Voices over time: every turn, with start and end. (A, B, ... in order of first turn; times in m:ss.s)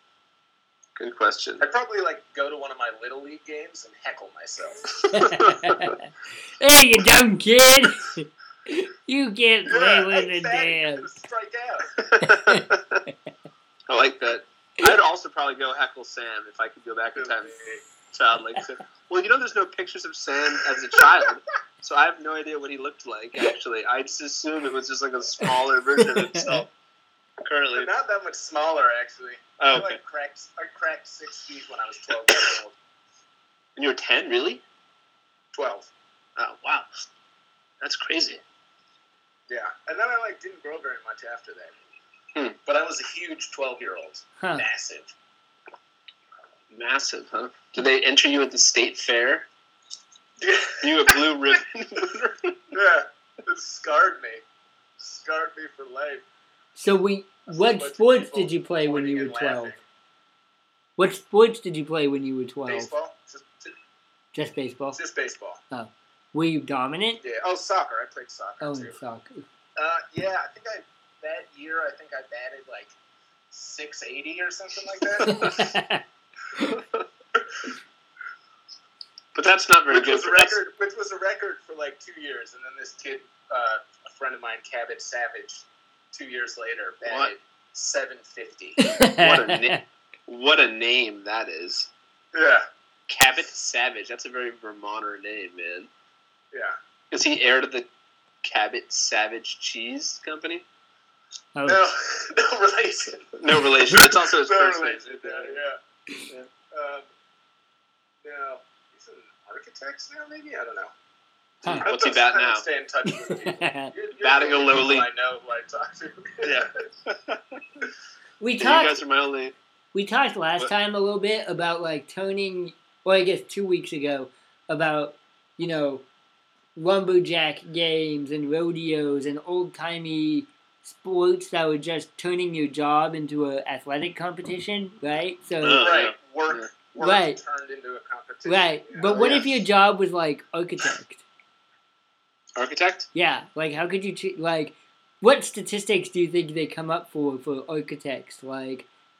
0:01.0-0:01.6 A
0:01.6-0:05.0 B
0:05.1-0:11.1 C
0:05.2-0:05.8 A
0:09.6-0:12.0 B
0:12.0-0:13.0 A
0:12.2-0:13.1 C
0:13.9-0:17.5 A
0:17.1-0:17.8 B
0:18.1-0:26.7 A
0:26.0-0:26.5 C
0:27.4-0:27.9 A
0:27.7-0:32.7 B
0:29.6-0:30.0 A
0:33.8-0:34.6 A
0:35.5-0:35.9 B
0:36.4-0:36.9 A
0:37.8-0:38.4 A
0:39.5-0:41.8 B
0:42.6-0:45.1 B
0:46.7-0:49.5 A
0:50.4-0:51.3 B
0:50.8-0:52.7 A
0:52.7-0:54.4 B
0:55.0-0:56.2 B
0:56.8-0:59.7 C
0:57.5-0:59.8 B
1:01.0-1:02.9 C
1:02.6-1:03.7 B
1:04.3-1:05.0 C
1:04.9-1:05.6 B
1:05.7-1:07.2 C
1:07.2-1:09.0 B
1:08.6-1:09.4 C
1:09.8-1:12.9 B
1:13.5-1:15.6 B
1:15.2-1:16.0 C
1:16.7-1:17.0 A
1:19.3-1:20.6 A
1:19.9-1:28.8 B
1:27.1-1:27.3 A
1:28.8-1:29.8 C
1:29.1-1:31.9 A
1:32.3-1:32.6 B
1:33.1-1:35.9 A
1:37.1-1:37.9 A
1:38.4-1:40.6 A
1:41.5-1:41.8 C
1:41.7-1:45.8 B
1:43.4-1:45.6 A
1:46.7-1:47.1 B
1:48.2-1:50.9 B
1:51.6-1:56.7 B
1:51.7-1:52.6 A
1:53.1-1:53.9 C
1:54.2-1:55.1 A
1:56.4-1:57.8 A
1:58.4-1:59.0 C
1:58.6-1:59.5 A
1:59.9-2:06.0 C
2:06.7-2:15.9 C
2:15.6-2:16.7 A
2:15.7-2:19.5 B
2:17.0-2:17.4 C
2:18.4-2:21.2 C
2:22.6-2:23.1 A
2:23.1-2:28.9 C